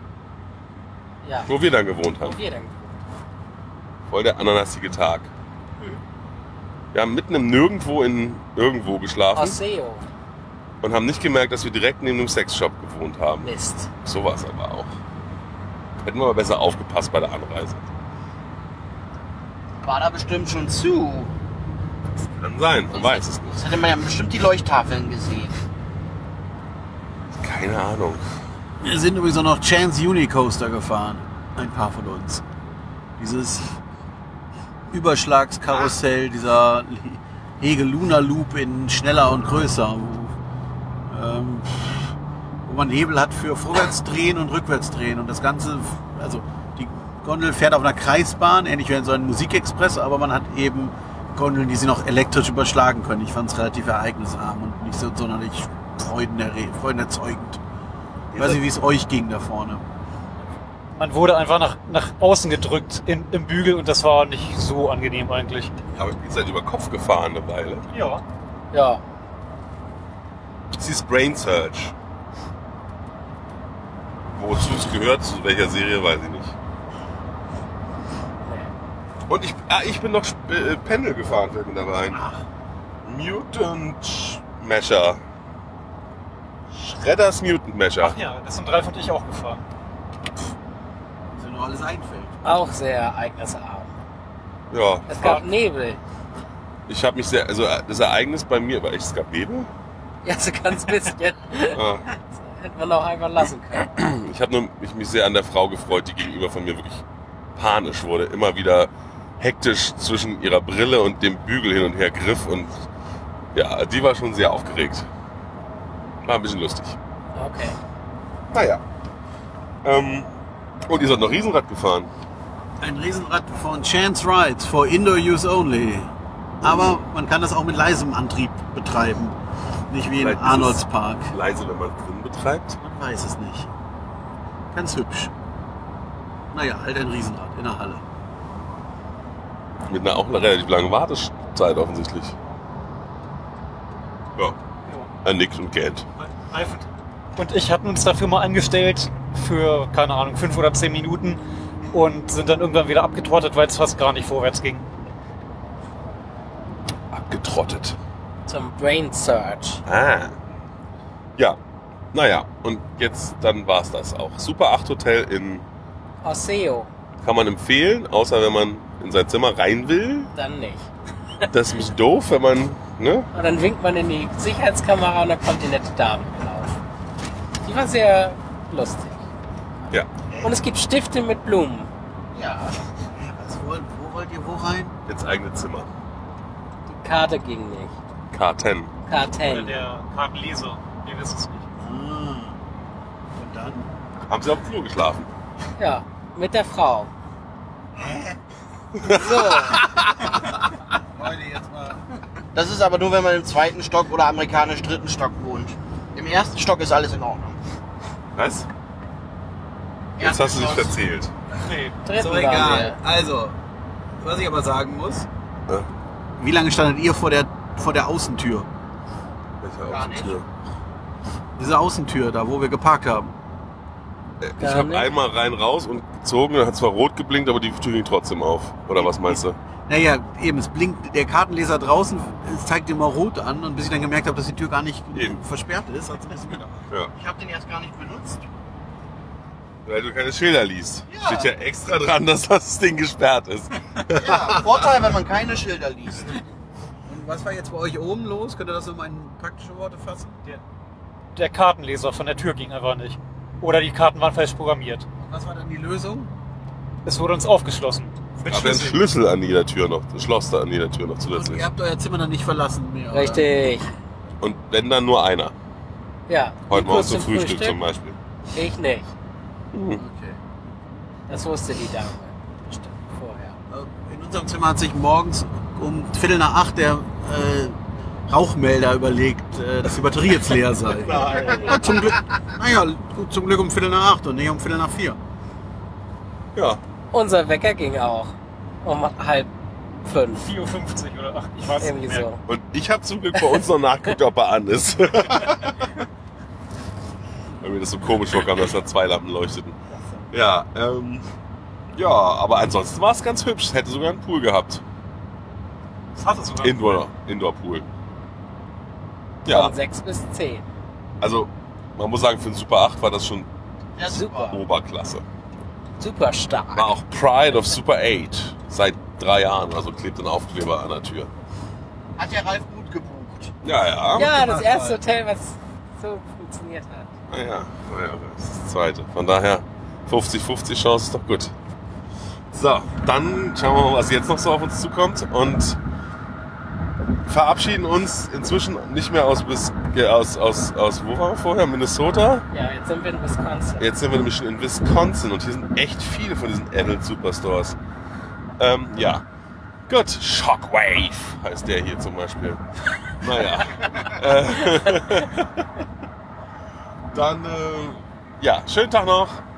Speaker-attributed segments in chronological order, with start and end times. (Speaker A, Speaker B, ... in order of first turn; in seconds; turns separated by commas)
Speaker A: 1.2-1.5, Speaker B: 1.5-2.4, Speaker A: 2.2-3.0, Speaker B: 4.1-5.3, Speaker B: 6.9-9.6, Speaker A: 9.3-10.1, Speaker B: 10.8-13.5, Speaker A: 13.4-13.9, Speaker B: 14.0-14.9, Speaker B: 16.0-17.9, Speaker C: 19.8-21.3, Speaker B: 22.4-23.6, Speaker C: 23.5-25.6, Speaker B: 27.4-28.2, Speaker D: 28.8-32.4, Speaker D: 33.2-33.7, Speaker D: 34.9-40.4, Speaker D: 41.1-57.6, Speaker B: 58.3-58.6, Speaker D: 58.4-59.8, Speaker E: 60.9-65.7, Speaker B: 65.9-67.8, Speaker E: 67.9-68.2, Speaker A: 68.7-69.0, Speaker B: 70.8-72.0, Speaker B: 74.3-76.5, Speaker A: 78.5-78.7, Speaker B: 79.3-82.3, Speaker B: 83.0-85.2, Speaker B: 86.7-88.2, Speaker E: 88.0-89.6, Speaker D: 91.4-92.6, Speaker A: 92.4-93.9, Speaker B: 94.7-95.4, Speaker A: 95.1-96.0, Speaker B: 96.9-99.7, Speaker A: 100.2-103.9, Speaker B: 101.7-102.0, Speaker B: 103.9-107.0, Speaker B: 107.6-112.9, Speaker B: 113.5-115.1, Speaker B: 116.2-117.0, Speaker A: 117.3-117.8, Speaker B: 118.5-118.8, Speaker B: 119.8-120.3, Speaker B: 120.9-122.1, Speaker D: 122.8-126.1, Speaker D: 126.6-129.4, Speaker D: 129.9-131.3, Speaker B: 130.2-132.8, Speaker D: 132.8-133.7, Speaker D: 134.7-135.3, Speaker D: 136.5-138.0, Speaker B: 139.9-142.4, Speaker B: 145.2-146.1, Speaker E: 146.2-151.4, Speaker E: 151.9-154.9, Speaker B: 157.1-158.0, Speaker A: 158.5-159.8, Speaker B: 159.9-160.4, Speaker B: 162.1-165.7, Speaker A: 166.2-166.9, Speaker B: 167.2-170.3, Speaker A: 170.3-171.4, Speaker B: 171.5-173.3, Speaker A: 173.3-176.8, Speaker A: 177.6-179.2, Speaker A: 180.4-181.9, Speaker C: 182.3-182.8, Speaker D: 183.2-184.9, Speaker B: 185.1-185.9, Speaker A: 186.9-188.0, Speaker B: 188.3-188.9, Speaker A: 189.1-189.8, Speaker E: 189.5-191.8, Speaker D: 191.8-192.6, Speaker D: 193.3-193.9, Speaker B: 194.3-195.3, Speaker A: 195.8-197.1, Speaker D: 198.0-198.3, Speaker B: 199.0-200.4, Speaker A: 199.1-199.9, Speaker D: 201.2-202.1, Speaker C: 202.5-207.6, Speaker B: 208.4-208.7, Speaker C: 210.2-211.1, Speaker B: 210.2-211.3, Speaker E: 211.6-212.0, Speaker A: 212.1-213.0, Speaker D: 212.1-213.6, Speaker D: 214.2-215.3, Speaker D: 216.4-218.7, Speaker B: 219.6-220.5, Speaker C: 219.9-220.4, Speaker D: 221.6-223.3, Speaker B: 224.4-229.6, Speaker A: 224.6-225.1, Speaker D: 229.0-236.7, Speaker B: 235.1-235.4, Speaker C: 237.1-238.4, Speaker B: 239.8-244.8, Speaker C: 241.1-241.5, Speaker C: 244.1-246.4, Speaker D: 247.1-250.4, Speaker E: 251.3-255.1, Speaker D: 255.2-256.3, Speaker E: 257.1-259.0, Speaker B: 258.5-261.7, Speaker D: 261.3-263.5, Speaker A: 263.1-263.9, Speaker B: 264.4-265.6, Speaker A: 266.3-267.8, Speaker B: 266.7-268.2, Speaker A: 268.5-269.1, Speaker B: 269.7-270.0, Speaker D: 270.0-270.4, Speaker A: 271.3-273.6, Speaker D: 273.7-285.2, Speaker B: 281.1-281.8, Speaker B: 286.6-286.8, Speaker A: 287.1-289.5, Speaker A: 290.0-290.5, Speaker E: 290.3-292.3, Speaker A: 291.8-292.4, Speaker B: 292.5-295.9, Speaker B: 297.6-299.8, Speaker B: 300.3-301.3, Speaker B: 302.0-304.8, Speaker E: 306.1-307.0, Speaker B: 306.6-307.9, Speaker B: 309.4-309.8, Speaker A: 309.5-310.7, Speaker B: 311.2-313.5, Speaker C: 314.0-314.6, Speaker A: 314.1-314.6, Speaker B: 314.4-315.2, Speaker A: 316.0-316.9, Speaker B: 316.7-321.3, Speaker C: 322.2-323.5, Speaker B: 323.6-324.4, Speaker A: 324.2-327.1, Speaker D: 324.2-325.0, Speaker B: 327.3-331.5, Speaker B: 332.5-335.8, Speaker B: 337.3-342.5, Speaker A: 342.5-343.9, Speaker B: 343.8-347.8, Speaker B: 348.6-349.2, Speaker B: 349.9-352.6, Speaker B: 353.1-355.7, Speaker B: 357.1-359.4